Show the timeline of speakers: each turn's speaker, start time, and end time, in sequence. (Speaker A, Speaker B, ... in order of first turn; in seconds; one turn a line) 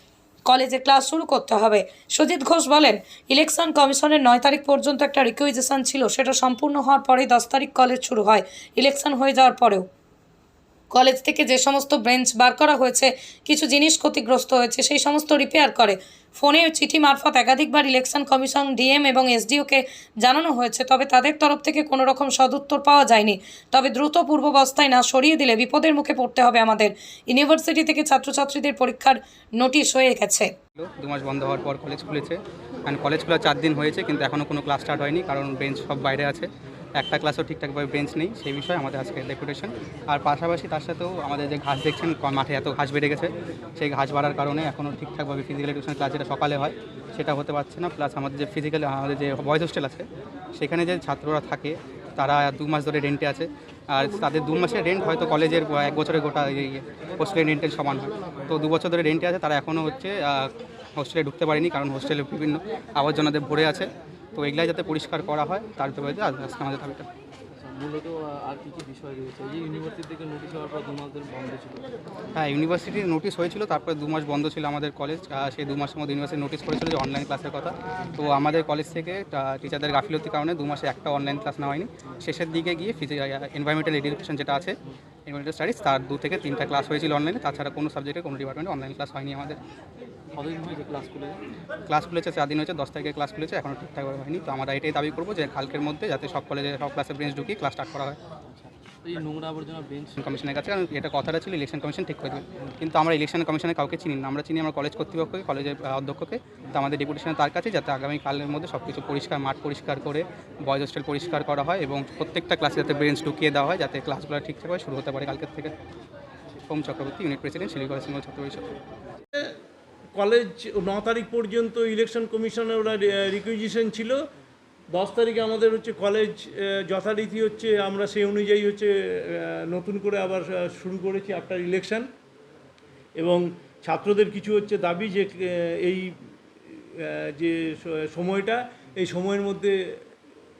Speaker A: 0.5-9.9
Speaker A: 10.9-30.5
Speaker B: 30.8-67.0
Speaker C: 67.5-71.9
Speaker B: 72.3-89.6
Speaker C: 90.3-91.4
Speaker B: 91.9-98.2
Speaker C: 98.5-100.2
Speaker B: 100.2-115.7
Speaker B: 116.7-118.7
Speaker D: 120.2-124.2
Speaker D: 124.9-132.1
Speaker D: 133.2-136.2
Speaker D: 136.7-139.8